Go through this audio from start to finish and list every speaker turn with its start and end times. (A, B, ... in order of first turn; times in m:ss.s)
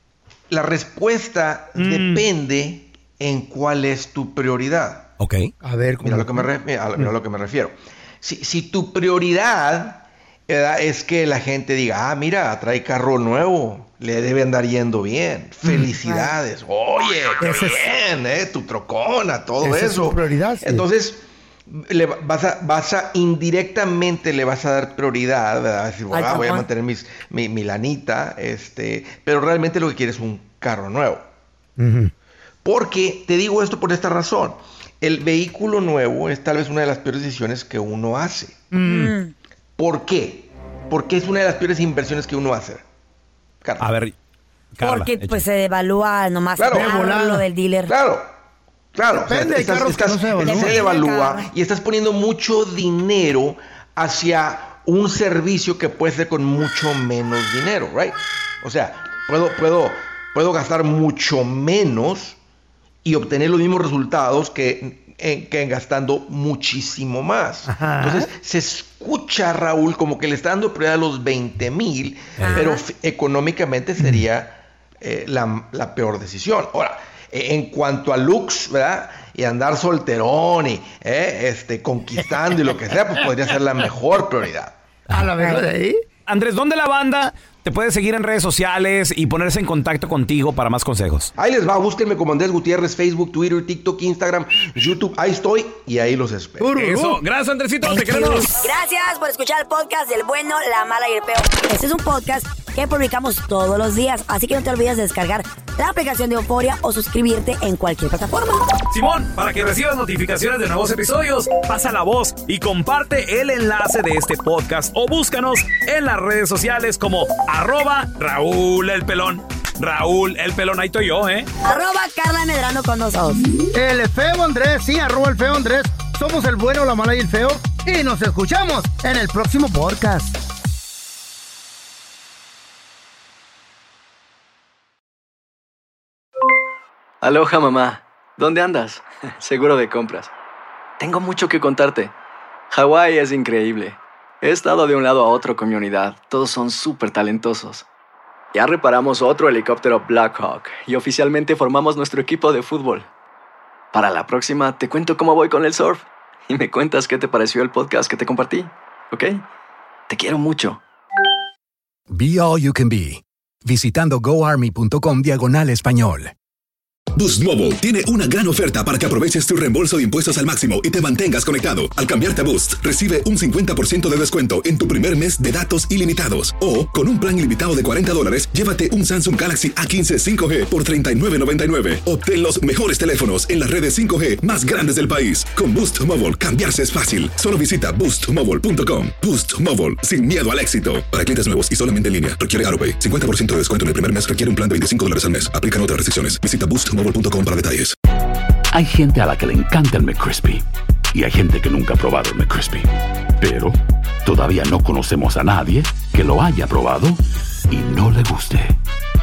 0:00.5-0:05.1 A
0:01.8-0:02.2 B
0:05.2-0:05.5 C
0:05.6-0:06.5 B
0:06.0-0:31.2 A
0:16.0-0:16.3 D
0:17.4-0:17.9 B
0:19.6-0:20.8 B
0:26.1-0:26.7 D
0:31.8-0:32.1 B
0:32.6-0:38.7 A
0:38.7-0:39.1 B
0:38.8-0:39.3 D
0:39.8-0:42.8 A
0:43.6-0:43.9 A
0:43.8-0:44.1 C
0:44.8-0:45.4 C
0:44.8-0:48.0 D
0:46.6-0:46.9 A
0:46.7-0:47.4 B
0:47.9-0:48.3 A
0:49.0-1:02.4 A
0:49.3-0:50.8 B
0:50.4-0:51.5 D
1:03.0-1:24.8 A
1:07.7-1:08.3 B
1:12.4-1:12.8 D
1:25.1-1:26.0 B
1:26.3-1:31.3 C
1:31.4-1:36.7 A
1:36.6-1:37.2 B
1:36.7-1:38.6 C
1:37.8-1:48.7 D
1:48.9-2:01.5 C
2:01.6-2:03.5 D
2:03.7-2:10.4 B
2:17.2-2:20.3 E
2:21.0-2:22.1 E
2:22.7-2:27.8 E
2:28.5-2:33.1 E
2:33.9-2:39.4 E
2:40.1-2:40.8 E
2:42.1-2:46.3 F
2:47.2-3:18.0 G
3:18.7-3:28.8 H